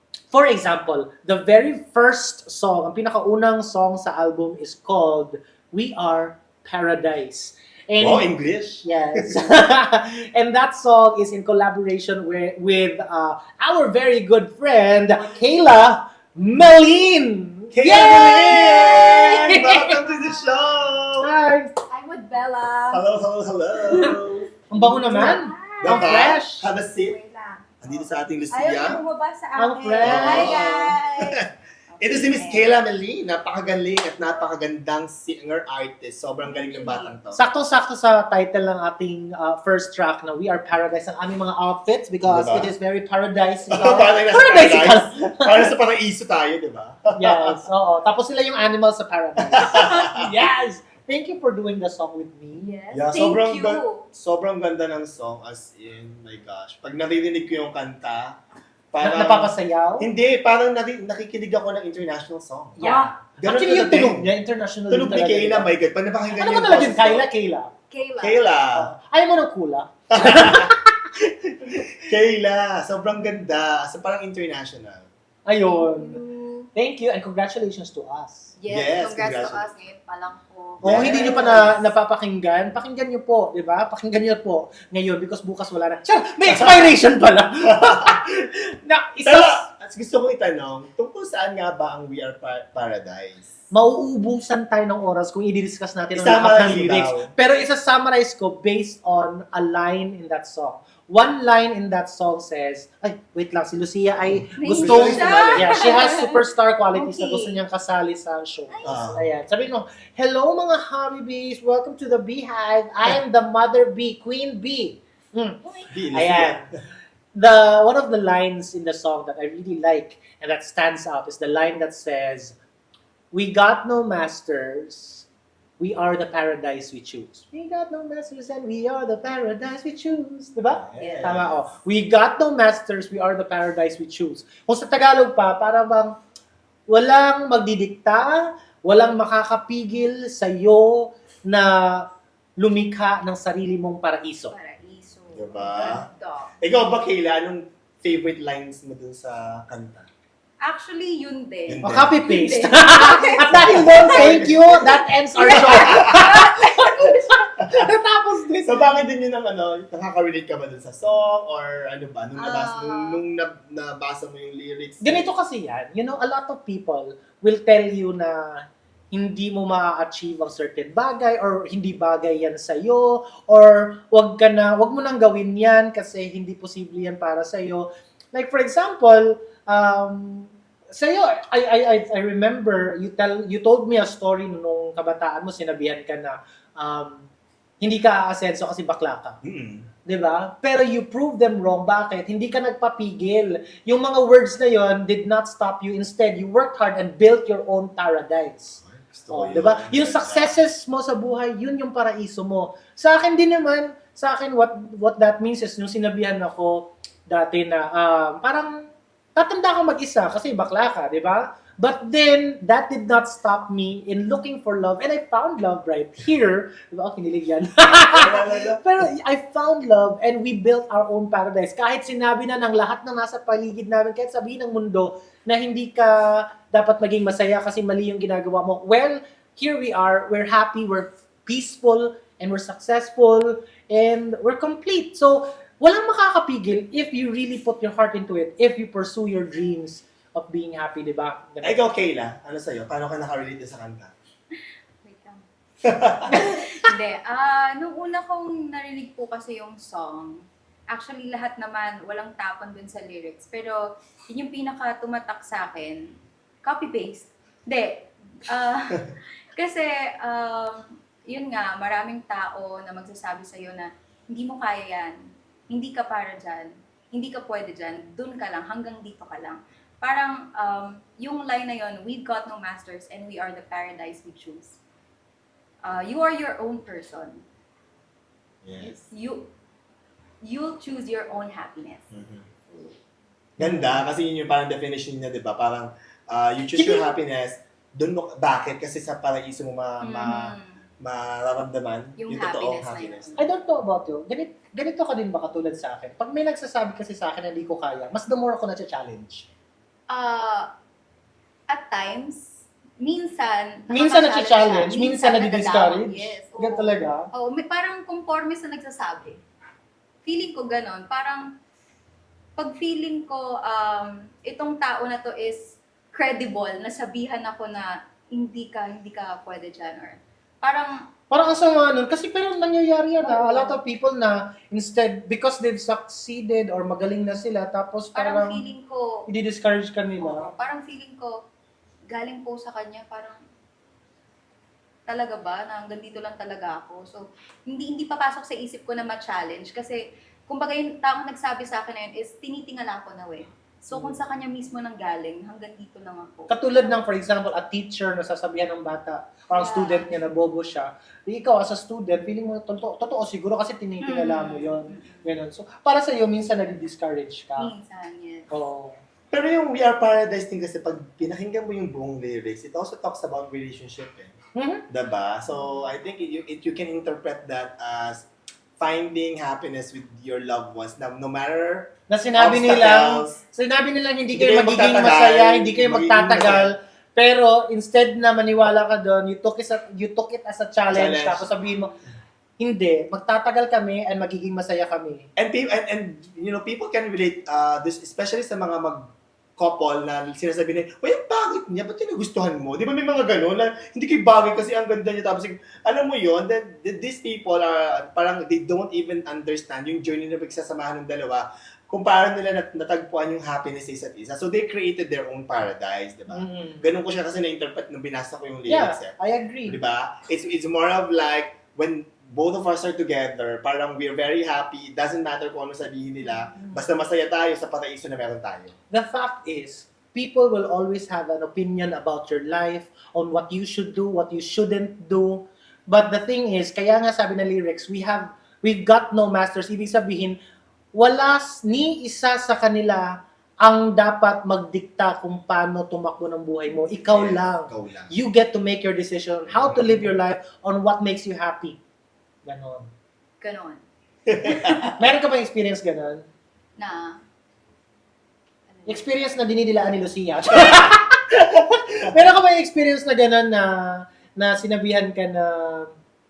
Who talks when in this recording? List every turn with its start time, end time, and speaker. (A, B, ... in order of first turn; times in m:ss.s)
0:00.3-0:08.3 A
0:08.0-0:09.3 B
0:08.8-0:19.9 A
0:17.7-0:21.3 B
0:17.9-0:18.8 C
0:20.0-0:20.8 C
0:21.2-0:21.7 A
0:21.9-0:23.0 C
0:22.9-0:24.5 B
0:23.8-0:26.4 C
0:24.7-0:26.7 A
0:25.8-0:27.2 B
0:26.9-0:32.7 C
0:27.8-0:29.0 B
0:29.6-0:30.9 A
0:30.0-0:31.4 B
0:32.0-0:37.4 B
0:36.4-0:37.2 C
0:37.3-0:45.7 A
0:42.2-0:42.7 B
0:43.7-0:47.6 B
0:47.2-0:52.8 A
0:49.4-0:50.3 B
0:52.5-0:54.0 C
0:52.9-0:58.4 B
0:58.9-1:02.8 B
0:59.0-1:00.1 A
1:02.8-1:05.7 A
1:02.8-1:03.1 C
1:03.4-1:04.3 B
1:04.9-1:07.3 B
1:06.3-1:07.7 A
1:07.9-1:08.5 C
1:08.2-1:08.9 B
1:08.7-1:10.9 A
1:10.1-1:10.8 B
1:11.6-1:15.1 B
1:15.4-1:16.2 A
1:15.6-1:16.7 C
1:16.7-1:18.5 A
1:18.6-1:21.7 C
1:18.7-1:19.6 B
1:20.8-1:21.8 B
1:20.8-1:29.6 A
1:26.6-1:26.9 B
1:27.9-1:28.1 B
1:29.2-1:33.5 B
1:33.7-1:55.6 A
1:36.1-1:37.3 B
1:44.6-1:46.4 C
1:44.8-1:46.0 B
1:46.9-1:47.6 C
1:48.7-1:49.2 C
1:48.8-1:49.3 B
1:55.6-1:55.9 C
1:55.9-1:56.7 B
1:56.1-1:56.6 A
1:57.3-2:02.5 A
2:03.3-2:05.2 A
2:05.8-2:16.1 A
2:10.7-2:11.6 B
2:11.0-2:11.3 C
2:16.9-2:22.0 A
2:22.6-2:24.5 A
2:24.5-2:26.5 C
2:25.3-2:26.1 B
2:26.6-2:30.1 B
2:30.6-2:34.4 C
2:31.7-2:32.2 B
2:31.8-2:39.0 A
2:33.4-2:34.8 B
2:35.4-2:37.3 C
2:35.6-2:36.3 B
2:38.6-2:45.3 B
2:42.4-2:43.2 C
2:45.0-3:07.3 A
3:07.8-3:09.4 A
3:09.4-3:09.9 B
3:10.0-3:18.8 A
3:18.8-3:20.5 B
3:19.3-4:01.8 A
3:37.9-3:38.8 B
4:01.6-4:04.1 B
4:05.0-4:05.4 C
4:05.8-4:06.4 B
4:06.3-4:16.1 C
4:16.6-4:25.2 C
4:25.7-4:34.8 C
4:35.8-4:37.4 C
4:38.6-4:38.9 B
4:38.8-4:39.5 C
4:40.4-4:42.1 C
4:42.1-4:42.5 B
4:43.6-4:53.3 B
4:43.6-4:44.0 A
4:46.8-4:47.1 A
4:50.0-4:50.8 C
4:52.2-4:53.4 C
4:53.4-4:59.4 A
5:00.1-5:00.7 C
5:01.7-5:09.4 C
5:03.9-5:07.3 A
5:10.2-5:11.5 C
5:12.6-5:21.0 C
5:21.3-5:28.6 A
5:23.2-5:23.8 C
5:28.1-5:29.2 C
5:29.3-5:30.5 A
5:30.2-5:31.3 C
5:32.1-5:33.4 C
5:35.1-5:46.6 C
5:43.9-5:44.2 A
5:46.5-5:57.7 A
5:49.5-5:50.2 C
5:54.0-5:55.4 C
5:57.6-5:58.5 C
5:58.5-5:59.0 A
5:59.3-6:04.4 B
6:04.5-6:04.8 A
6:04.9-6:08.2 B
6:08.8-6:13.4 B
6:12.1-6:22.0 A
6:14.3-6:16.7 B
6:20.9-6:21.4 B
6:22.6-6:25.3 A
6:25.4-6:58.7 B
6:46.3-6:46.8 A
6:48.7-6:49.8 A
6:56.2-6:56.5 C
6:58.9-7:10.4 A
7:10.9-7:13.1 A
7:13.6-7:21.8 A
7:17.1-7:18.1 B
7:22.4-7:22.9 A
7:23.4-7:23.8 C
7:24.3-7:24.9 B
7:25.0-7:26.2 A
7:26.8-7:27.2 C
7:28.7-7:29.2 C
7:28.9-7:35.9 A